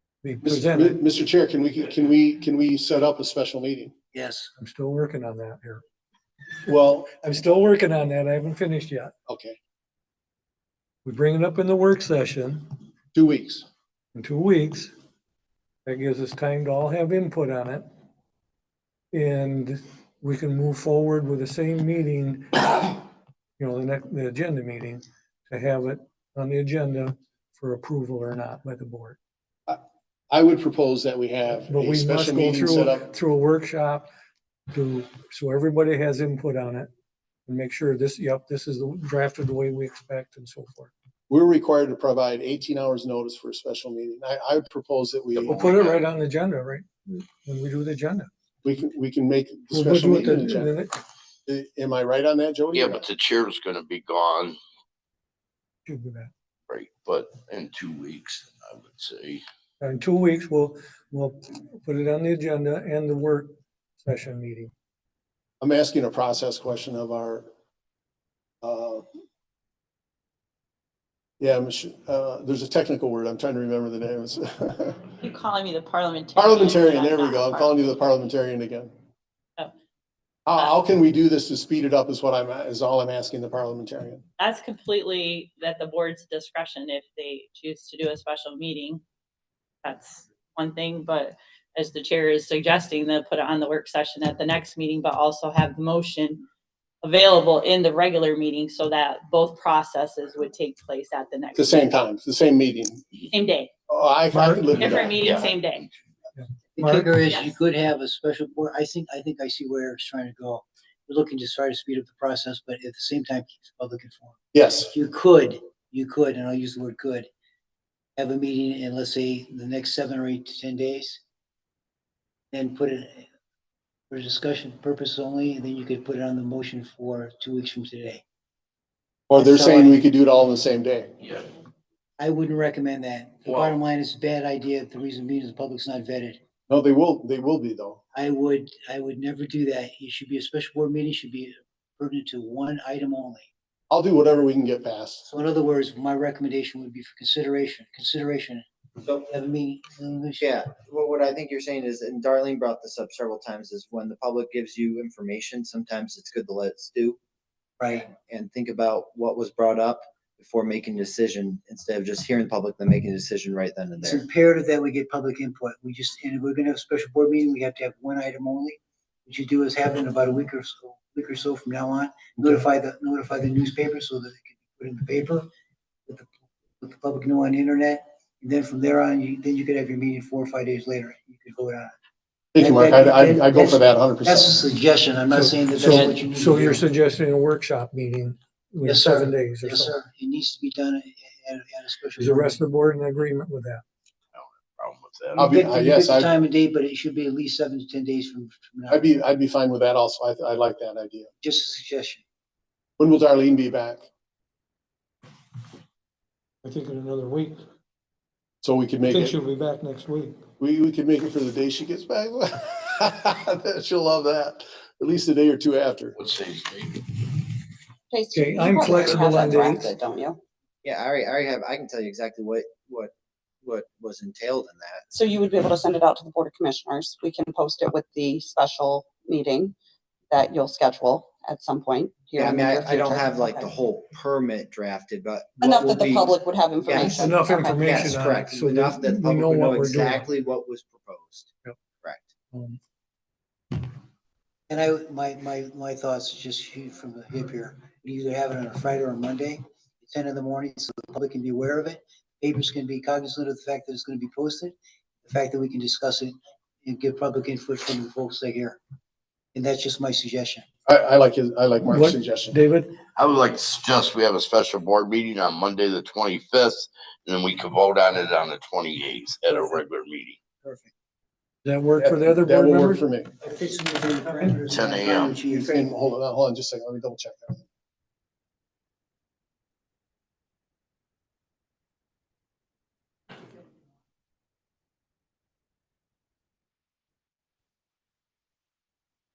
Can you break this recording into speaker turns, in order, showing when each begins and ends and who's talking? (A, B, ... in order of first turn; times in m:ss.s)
0:00.2-0:01.0 A
0:00.4-0:03.9 B
0:04.1-0:04.5 C
0:04.6-0:05.8 A
0:06.7-0:07.1 B
0:07.2-0:09.1 A
0:09.3-0:09.6 B
0:11.0-0:12.6 A
0:13.1-0:13.6 B
0:14.1-0:14.9 A
0:15.8-0:17.8 A
0:19.1-0:23.0 A
0:23.6-0:29.2 A
0:29.7-0:33.1 B
0:31.7-0:34.1 A
0:34.7-0:36.9 A
0:37.5-0:40.9 A
0:41.3-0:45.7 B
0:45.3-0:46.0 D
0:45.5-0:48.3 A
0:48.6-0:50.7 B
0:49.7-0:51.0 A
0:51.4-0:53.0 B
0:52.7-0:54.6 D
0:55.8-0:56.3 A
0:56.7-0:59.4 D
0:59.8-1:04.7 A
1:05.6-1:07.5 B
1:08.6-1:09.0 B
1:11.4-1:15.1 B
1:15.2-1:17.8 E
1:16.4-1:18.9 B
1:20.4-1:24.2 B
1:24.4-1:29.0 E
1:29.8-1:36.4 E
1:37.0-1:41.8 E
1:41.6-1:43.2 B
1:43.3-1:43.7 E
1:43.9-1:45.2 B
1:44.3-1:44.7 A
1:44.8-1:45.9 E
1:45.2-1:45.5 D
1:46.4-1:47.1 A
1:46.7-1:54.4 C
1:54.5-1:54.9 B
1:54.9-1:57.3 C
1:58.2-2:01.2 C
2:02.5-2:03.2 C
2:04.1-2:08.2 C
2:09.3-2:11.1 B
2:09.3-2:10.0 C
2:12.2-2:16.4 C
2:13.4-2:13.8 D
2:16.7-2:18.0 B
2:18.1-2:23.5 C
2:23.9-2:25.2 B
2:25.2-2:30.7 C
2:30.4-2:37.2 F
2:37.8-2:38.1 C
2:38.1-2:44.2 F
2:44.0-2:55.5 C
2:56.8-3:01.9 C
3:02.5-3:04.5 B
3:02.6-3:06.8 C
3:05.3-3:09.9 A
3:08.8-3:12.6 C
3:12.2-3:13.8 A
3:14.3-3:15.4 D
3:15.3-3:19.1 C
3:15.4-3:16.3 B
3:18.9-3:21.3 B
3:21.4-3:22.2 C
3:23.0-3:24.0 B
3:26.6-3:27.6 A
3:28.6-3:29.4 B
3:29.1-3:30.4 A
3:30.6-3:36.2 B
3:36.2-3:37.0 D
3:38.1-3:40.4 G
3:38.3-3:39.9 A
3:40.8-3:43.1 F
3:43.6-3:45.0 F
3:45.1-3:49.7 G
3:50.3-3:53.7 G
3:52.3-3:57.2 F
3:55.6-3:57.8 G
3:57.0-4:00.3 A
3:57.8-4:01.5 F
4:02.5-4:02.8 A
4:04.7-4:18.8 C
4:19.5-4:20.6 C
4:20.8-4:22.6 B
4:21.9-4:22.9 A
4:23.2-4:30.4 D
4:30.6-4:30.9 C
4:31.6-4:33.0 A
4:32.0-4:33.3 B
4:33.4-4:35.9 C
4:34.7-4:35.4 D
4:35.4-4:37.6 B